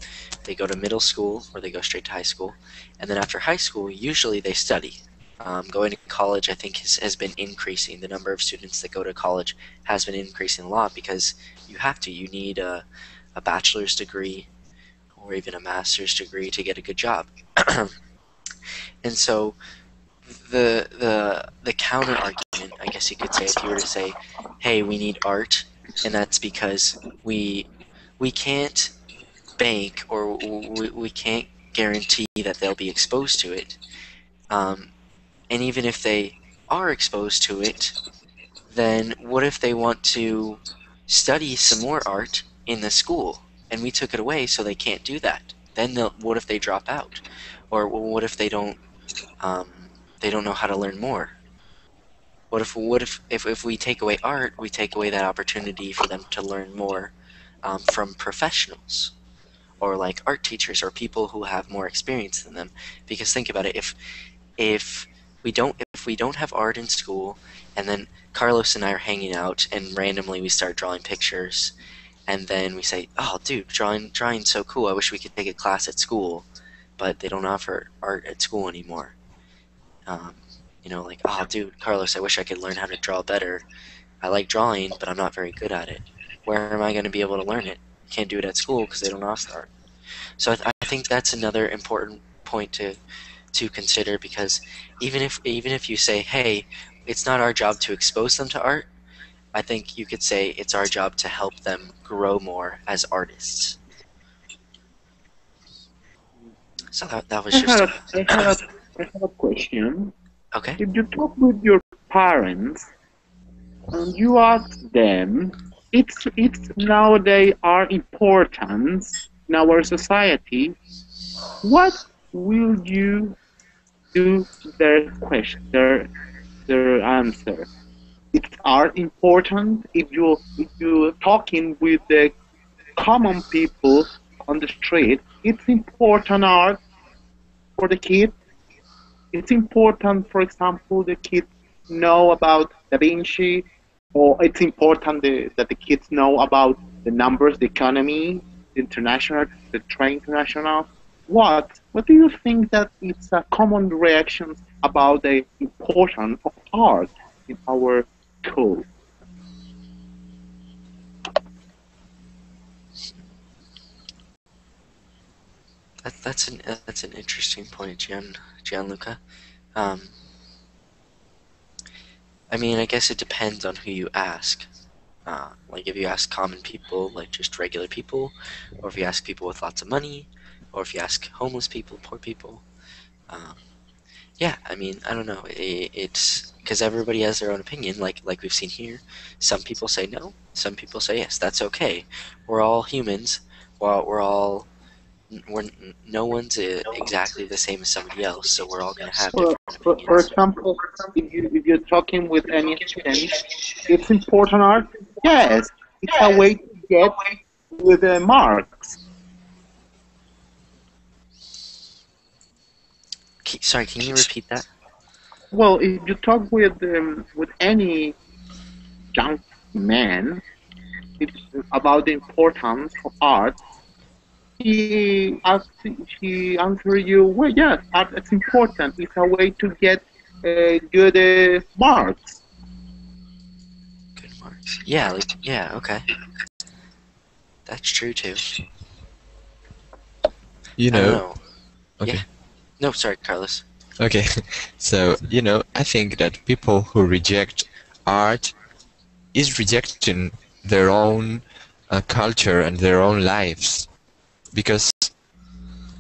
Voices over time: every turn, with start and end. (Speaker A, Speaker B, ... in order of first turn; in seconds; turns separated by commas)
Speaker A: 0.5-14.5, Speaker A: 15.2-17.9, Speaker A: 19.0-19.6, Speaker A: 20.2-28.9, Speaker A: 29.6-33.8, Speaker A: 34.5-34.9, Speaker A: 35.5-38.0, Speaker A: 38.7-48.8, Speaker A: 49.4-51.4, Speaker A: 52.5-59.1, Speaker A: 59.8-64.0, Speaker A: 64.6-71.7, Speaker A: 72.3-76.5, Speaker A: 77.0-79.1, Speaker A: 80.1-83.6, Speaker A: 84.2-89.7, Speaker A: 90.4-93.0, Speaker A: 93.5-98.9, Speaker A: 99.5-103.8, Speaker A: 106.9-108.5, Speaker B: 107.5-110.1, Speaker A: 110.5-110.8, Speaker B: 110.8-112.9, Speaker B: 113.9-120.7, Speaker B: 121.6-123.3, Speaker B: 124.1-126.1, Speaker B: 126.7-127.7, Speaker B: 128.3-132.3, Speaker B: 133.0-136.8, Speaker B: 137.8-138.3, Speaker B: 139.3-158.9, Speaker A: 166.0-169.2, Speaker A: 169.8-170.1, Speaker A: 172.5-174.7, Speaker A: 175.2-182.6, Speaker A: 183.3-183.6, Speaker A: 184.4-194.7, Speaker A: 195.3-200.3, Speaker B: 199.3-203.3, Speaker B: 203.9-208.9, Speaker A: 213.4-214.7, Speaker B: 215.5-218.2, Speaker B: 219.1-220.4, Speaker B: 221.2-223.6, Speaker B: 224.6-232.4, Speaker A: 234.2-236.0, Speaker A: 237.7-238.4, Speaker C: 240.8-241.2, Speaker A: 240.9-241.4, Speaker A: 242.8-243.6, Speaker C: 244.0-248.5, Speaker C: 249.3-253.9, Speaker C: 254.5-255.1